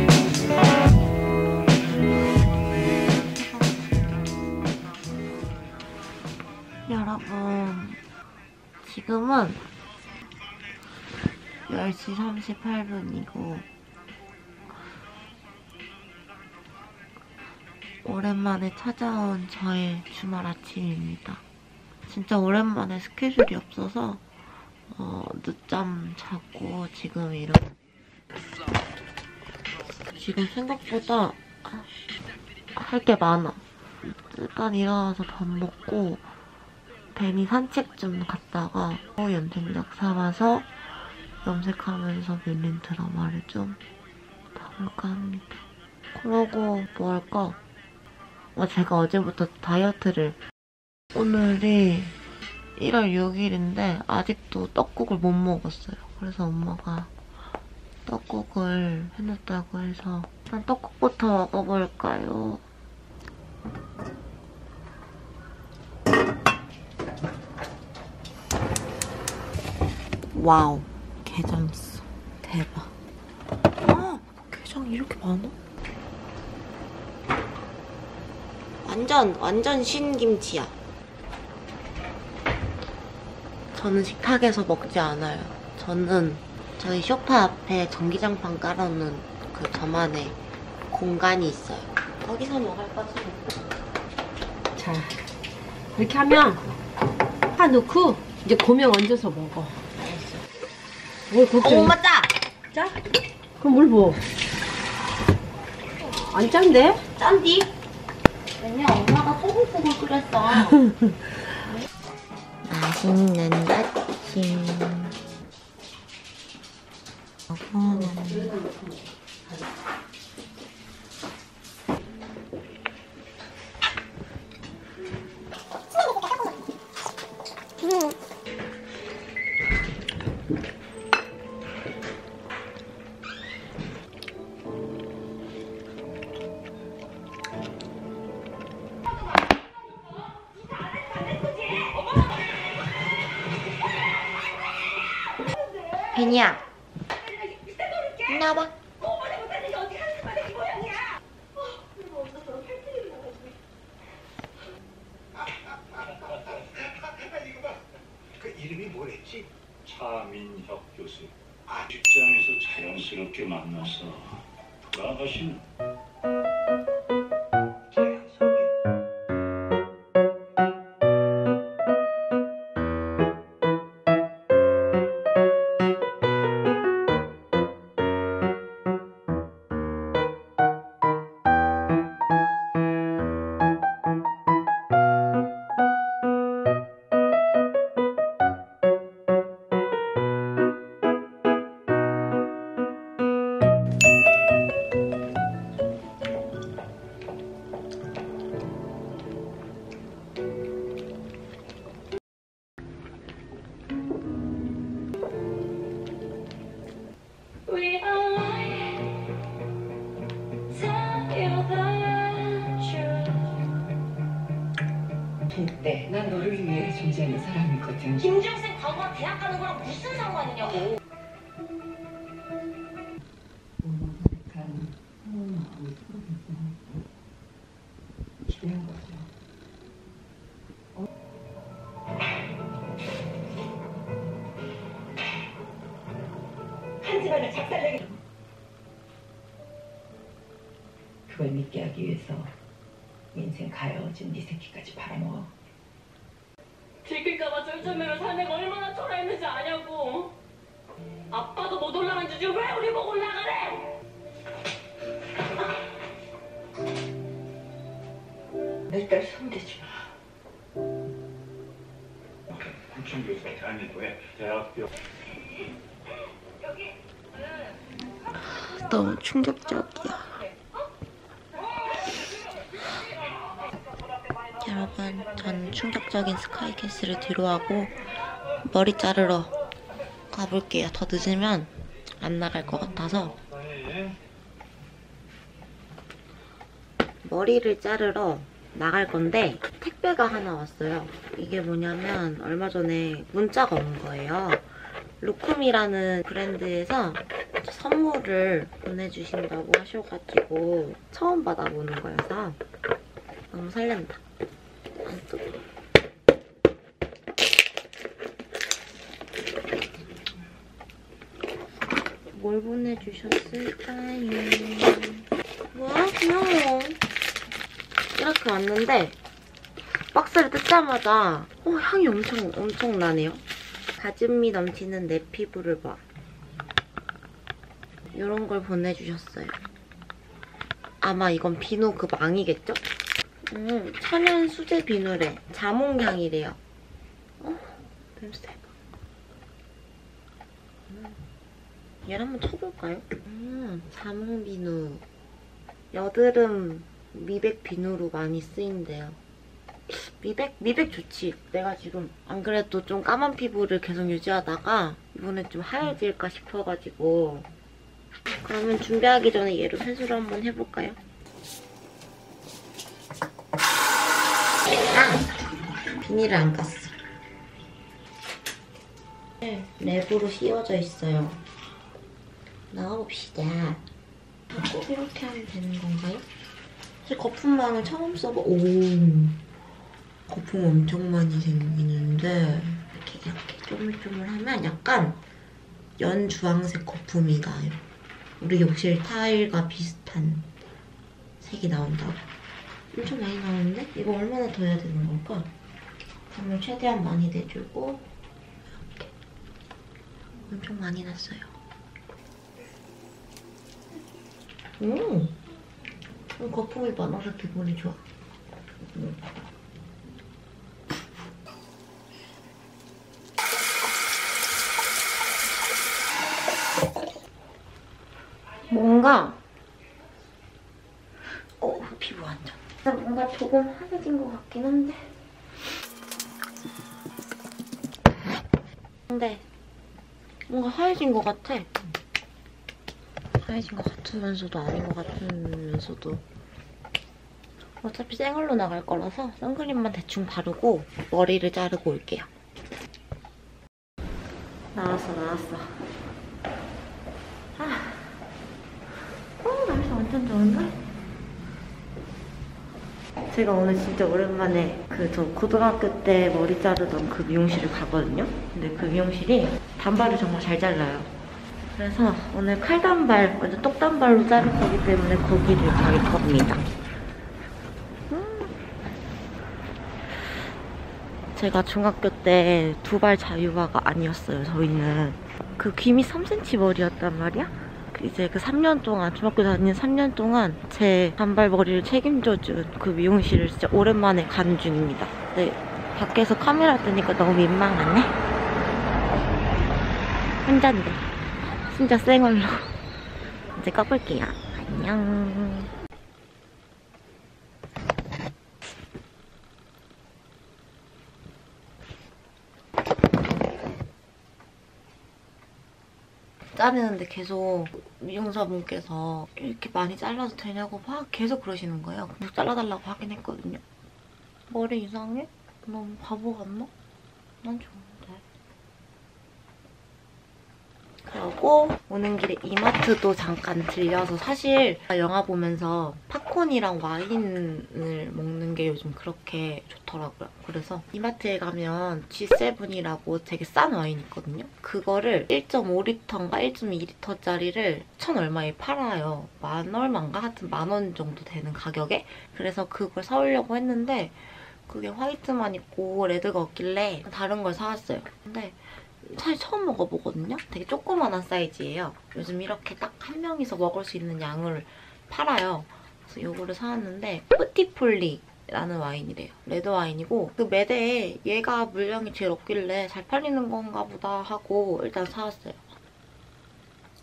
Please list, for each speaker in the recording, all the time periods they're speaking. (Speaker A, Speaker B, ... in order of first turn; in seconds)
Speaker A: 2.8-3.8, 6.9-8.0, 8.8-9.7, 11.7-13.7, 18.0-21.4, 22.1-24.2, 24.9-27.7, 30.1-31.9, 32.8-36.3, 37.1-40.7, 41.4-43.8, 44.5-45.6, 46.1-47.6, 48.5-50.4, 51.1-52.1, 52.8-57.1, 58.0-62.6, 70.3-72.9, 73.8-75.5, 78.8-80.7, 83.7-90.4, 90.9-93.5, 100.0-100.4, 101.6-102.3, 107.2-107.7, 108.6-110.9, 112.6-115.1, 117.5-118.6, 146.1-146.6, 148.2-148.8, 268.3-270.5, 274.6-277.9, 278.6-279.5, 280.3-283.4, 287.2-302.6, 303.5-304.2, 305.0-305.6, 312.3-317.0, 318.1-319.1, 319.9-323.4, 323.9-326.0, 328.1-329.6, 331.0-332.9, 333.5-336.6, 337.4-338.7, 340.9-341.2, 342.1-345.0, 345.9-349.2, 349.9-357.5, 358.3-361.0, 364.7-366.9, 369.4-371.4, 372.7-373.8, 374.5-376.2, 377.0-379.4, 380.3-385.2, 386.0-387.8, 388.4-390.5, 391.4-392.2, 392.9-395.5, 396.3-398.1, 398.7-399.1, 400.5-401.5, 404.8-405.4, 406.4-408.0, 408.8-409.2, 418.7-419.4, 421.6-425.1, 429.1-429.4, 430.5-431.7, 433.4-436.2, 437.8-442.3, 444.7-445.8, 447.6-448.2, 449.4-450.8, 453.3-461.1, 461.7-466.7, 468.1-468.6, 471.3-488.1, 490.4-492.7, 493.5-495.7, 506.5-513.6, 514.5-516.7, 517.4-518.2, 521.0-565.7
Speaker B: 94.8-95.1, 96.0-96.6, 97.5-99.8, 101.3-102.0, 103.6-104.2, 106.3-107.0
Speaker C: 149.0-151.1, 207.7-209.3, 210.7-213.4, 218.2-220.9, 237.1-237.8, 247.1-250.3, 251.3-253.9
Speaker D: 157.3-157.7, 158.4-159.5, 167.9-168.5
Speaker E: 159.8-161.3, 161.9-165.6, 262.5-264.9, 283.7-284.1
Speaker F: 215.5-218.3, 223.8-226.8, 228.4-229.3, 241.3-242.5, 243.3-245.5, 258.9-259.8